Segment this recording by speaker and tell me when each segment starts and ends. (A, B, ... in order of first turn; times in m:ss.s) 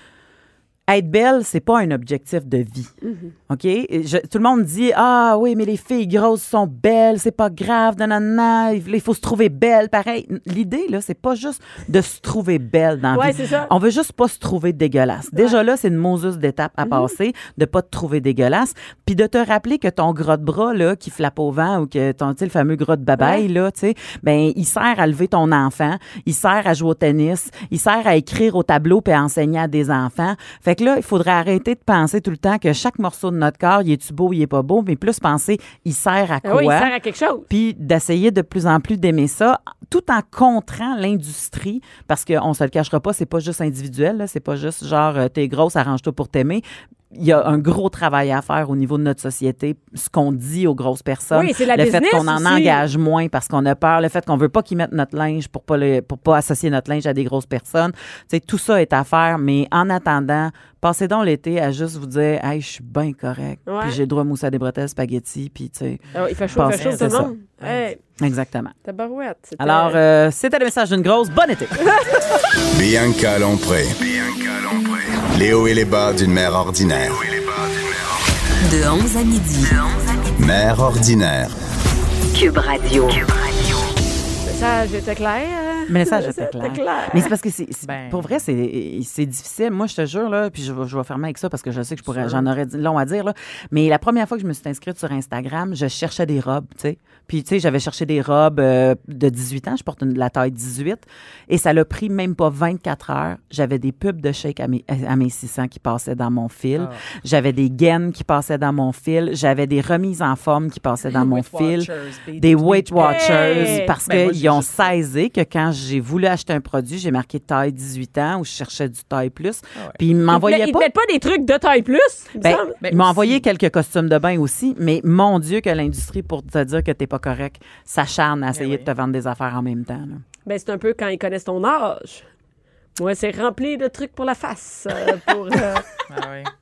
0:00.9-0:02.9 A
0:03.0-0:03.3 B
0:03.5-0:36.9 A
0:13.1-0:13.7 B
0:16.8-0:17.1 B
0:23.2-0:23.4 B
0:36.4-0:37.5 B
0:37.5-1:07.3 A
0:51.3-0:52.8 B
1:03.7-1:04.0 B
1:06.1-1:08.0 B
1:06.2-1:07.8 C
1:08.2-1:08.8 A
1:08.8-1:10.0 B
1:09.6-1:11.9 A
1:11.8-1:12.1 B
1:12.7-1:18.2 D
1:18.6-1:19.9 E
1:20.4-1:21.6 D
1:22.3-1:23.8 E
1:24.4-1:27.3 B
1:25.9-2:00.9 A
1:27.8-1:28.4 C
1:32.0-1:32.5 C
1:46.8-1:47.0 C
1:51.1-1:54.9 C
1:53.0-1:53.9 B
2:00.3-2:02.8 B
2:02.4-2:10.2 A
2:02.8-2:03.4 C
2:08.5-2:08.9 C
2:10.5-2:12.3 B
2:13.0-2:15.9 B
2:16.1-2:16.5 C